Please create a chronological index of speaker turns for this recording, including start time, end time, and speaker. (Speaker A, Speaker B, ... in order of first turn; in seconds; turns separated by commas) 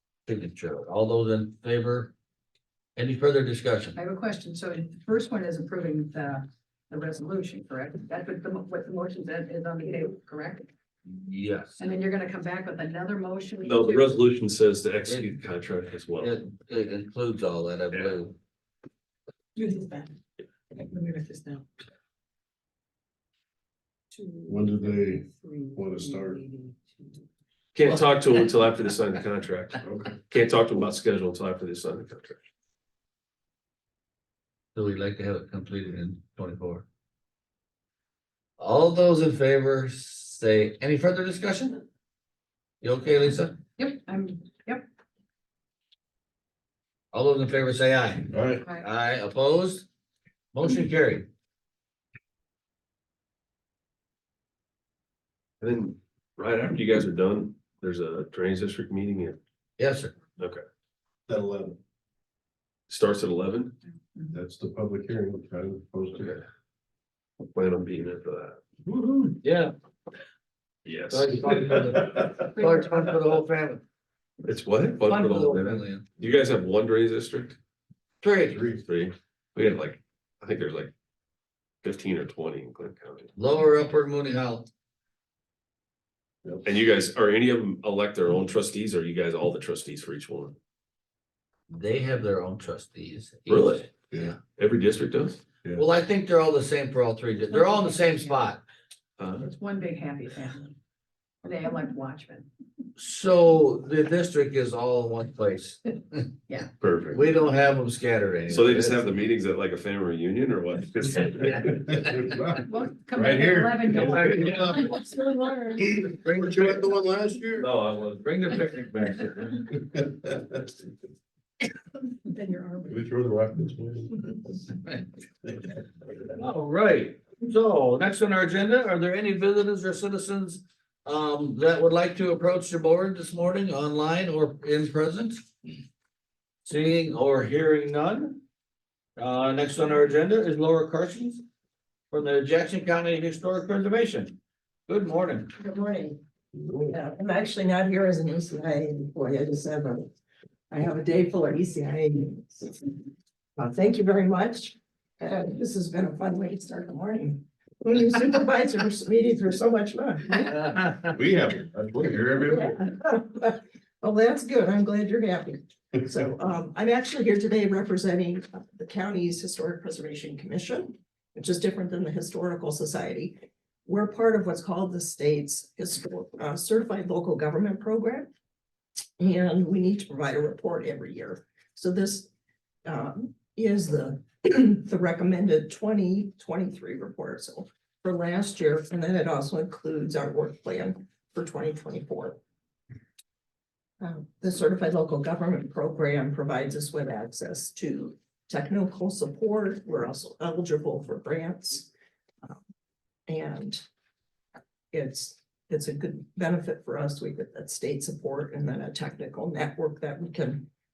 Speaker A: 0.3-2.1, Speaker A: 3.0-4.0, Speaker B: 4.0-10.7, Speaker A: 11.1-11.8, Speaker B: 11.8-14.2, Speaker C: 13.6-16.3, Speaker A: 16.2-18.3, Speaker B: 19.6-20.1, Speaker B: 20.8-21.7, Speaker B: 24.1-27.1, Speaker D: 24.5-26.4, Speaker C: 27.7-32.4, Speaker D: 29.8-30.2, Speaker A: 34.7-36.8, Speaker A: 38.6-41.8, Speaker A: 42.8-43.5, Speaker B: 43.8-44.9, Speaker A: 47.1-49.9, Speaker D: 48.3-48.6, Speaker A: 50.5-51.3, Speaker C: 55.6-59.4, Speaker A: 59.8-60.1, Speaker D: 61.3-61.8, Speaker C: 62.9-63.8, Speaker D: 64.3-66.4, Speaker C: 67.5-68.6, Speaker A: 68.9-69.7, Speaker C: 70.8-72.0, Speaker A: 71.1-73.8, Speaker B: 72.6-72.9, Speaker C: 74.4-77.6, Speaker A: 75.1-76.0, Speaker A: 78.2-78.6, Speaker D: 78.5-78.8, Speaker C: 78.8-80.9, Speaker C: 81.8-83.3, Speaker A: 83.3-84.7, Speaker C: 86.6-90.5, Speaker A: 91.7-94.3, Speaker C: 93.5-93.9, Speaker C: 94.5-95.5, Speaker A: 95.7-98.6, Speaker B: 97.5-98.3, Speaker C: 99.2-99.5, Speaker B: 99.4-100.7, Speaker B: 101.4-102.5, Speaker A: 103.0-106.3, Speaker C: 106.8-107.2, Speaker A: 107.1-109.0, Speaker C: 108.5-111.7, Speaker D: 111.5-115.1, Speaker B: 112.6-115.0, Speaker A: 113.9-115.0, Speaker D: 115.8-117.7, Speaker A: 116.0-116.8, Speaker A: 117.6-119.8, Speaker B: 122.3-123.0, Speaker D: 122.9-124.3, Speaker A: 126.3-135.5, Speaker A: 136.6-138.4, Speaker A: 139.2-141.4, Speaker A: 142.1-144.4, Speaker A: 144.9-145.5, Speaker E: 145.6-146.2, Speaker D: 146.6-146.9, Speaker E: 146.9-150.1, Speaker E: 150.7-152.8, Speaker E: 153.6-160.9, Speaker D: 161.1-162.7, Speaker E: 162.5-178.3, Speaker E: 179.2-182.3, Speaker E: 182.8-192.4, Speaker E: 194.0-201.9, Speaker E: 203.3-203.8, Speaker E: 204.9-210.7